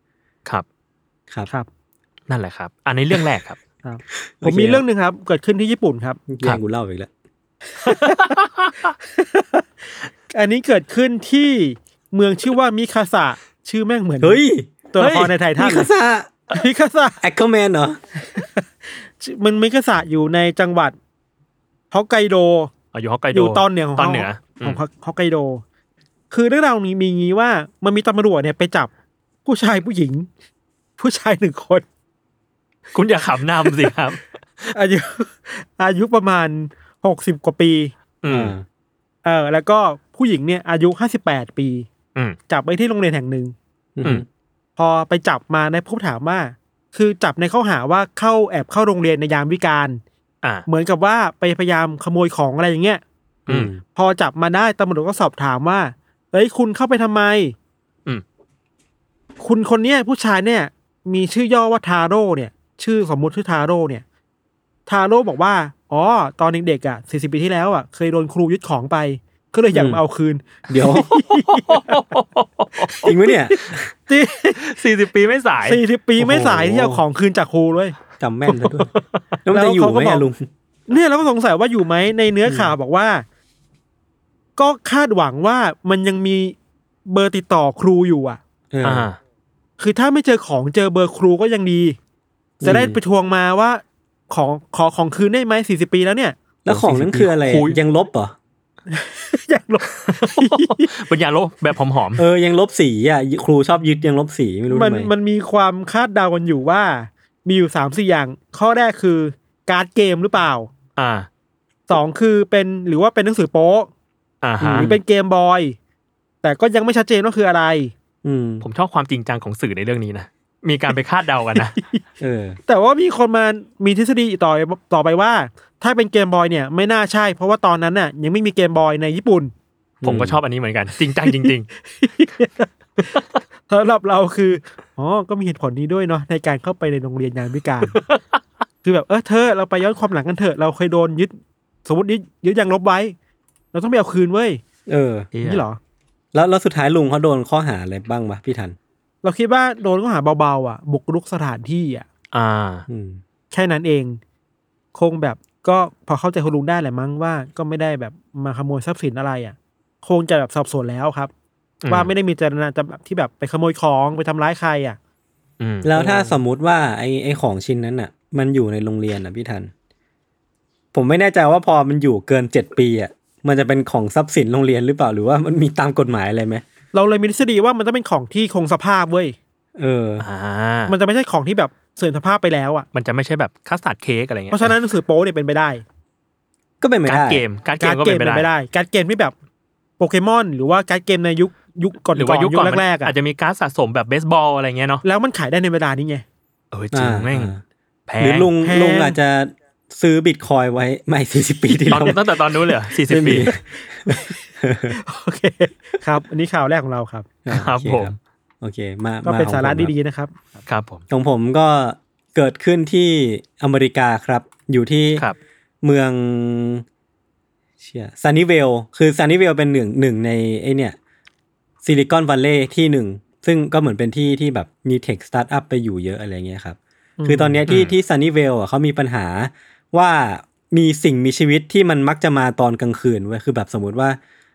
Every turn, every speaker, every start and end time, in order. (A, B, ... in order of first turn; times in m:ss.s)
0:02.3-0:03.6 A
0:03.8-0:06.2 B
0:04.2-0:04.8 C
0:06.3-0:07.1 C
0:07.7-0:08.4 B
0:07.8-0:08.9 A
0:09.1-0:09.6 B
0:10.3-0:14.4 B
0:14.2-0:14.7 C
0:14.9-0:15.9 B
0:15.0-0:15.3 A
0:15.6-0:16.4 C
0:16.5-0:17.2 B
0:17.2-0:18.0 C
0:18.2-0:21.0 B
0:21.9-0:22.7 B
0:22.9-0:24.8 A
0:23.3-0:25.6 B
0:26.3-0:28.9 B
0:29.4-0:30.3 B
0:31.0-0:31.8 B
0:32.9-0:34.7 A
0:33.6-0:33.9 B
0:34.7-0:37.9 B
0:38.2-0:38.6 A
0:38.3-0:38.6 C
0:39.2-0:41.9 B
0:42.5-0:43.5 B
0:44.0-0:44.2 C
0:44.8-0:50.0 B
0:50.7-0:53.0 B
0:53.5-0:53.8 C
0:53.9-0:57.5 B
0:59.4-1:04.0 B
1:04.8-1:12.0 B
1:09.7-1:10.0 C
1:10.7-1:11.1 C
1:11.1-1:13.1 A
1:13.0-1:13.9 C
1:14.1-1:14.8 B
1:14.6-1:15.8 A
1:15.6-1:18.0 B
1:16.2-1:17.0 C
1:18.2-1:18.9 C
1:18.5-1:18.8 B
1:19.4-1:20.5 C
1:19.5-1:20.3 B
1:20.9-1:23.2 B
1:22.4-1:22.7 C
1:24.6-1:28.4 B
1:28.7-1:29.1 C
1:28.8-1:29.2 A
1:29.8-1:32.0 B
1:32.6-1:33.0 C
1:32.6-1:36.4 B
1:36.6-1:38.3 C
1:36.7-1:37.8 A
1:38.9-1:40.9 B
1:40.2-1:42.2 A
1:42.2-1:45.1 C
1:44.7-1:50.7 B
1:51.0-1:51.3 A
1:51.9-1:53.9 B
1:54.4-1:55.0 A
1:54.6-1:55.0 C
1:54.6-1:55.8 B
1:56.4-1:57.9 B
1:58.2-1:58.6 C
1:58.6-2:01.8 A
2:01.6-2:02.0 B
2:02.2-2:02.6 C
2:02.7-2:09.5 B
2:10.0-2:10.4 C
2:10.0-2:11.7 A
2:11.2-2:18.0 B
2:17.9-2:18.4 A
2:18.8-2:23.1 B
2:23.7-2:24.6 B
2:24.9-2:25.3 C
2:25.3-2:25.6 A
2:25.4-2:25.8 B
2:26.3-2:28.8 C
2:29.2-2:32.1 B
2:32.3-2:32.8 A
2:32.9-2:33.2 C
2:33.5-2:34.2 B
2:34.9-2:41.3 B
2:41.8-2:42.1 A
2:41.9-2:45.0 B
2:45.6-2:46.1 A
2:45.8-2:49.7 C
2:46.0-2:46.3 B
2:50.9-2:56.6 C
2:56.9-2:59.4 B
2:59.8-3:00.2 C
3:00.2-3:00.9 A
3:00.9-3:02.8 B
3:02.9-3:04.7 A
3:04.5-3:05.8 B
3:06.8-3:07.4 C
3:07.1-3:08.5 A
3:07.8-3:09.3 B
3:10.0-3:13.1 B
3:12.2-3:15.0 A
3:15.0-3:16.2 B
3:16.7-3:17.5 A
3:16.9-3:17.6 C
3:18.1-3:18.5 A
3:18.2-3:22.2 C
3:18.6-3:19.2 B
3:21.9-3:23.5 A
3:23.1-3:25.0 C
3:23.4-3:24.4 B
3:24.9-3:27.3 B
3:27.4-3:29.9 C
3:27.5-3:28.1 A
3:29.2-3:30.6 B
3:30.6-3:31.0 A
3:31.1-3:35.2 C
3:35.8-3:36.8 C
3:37.8-3:41.0 C
3:41.8-3:54.2 C
3:47.2-3:47.6 B
3:47.7-3:47.9 A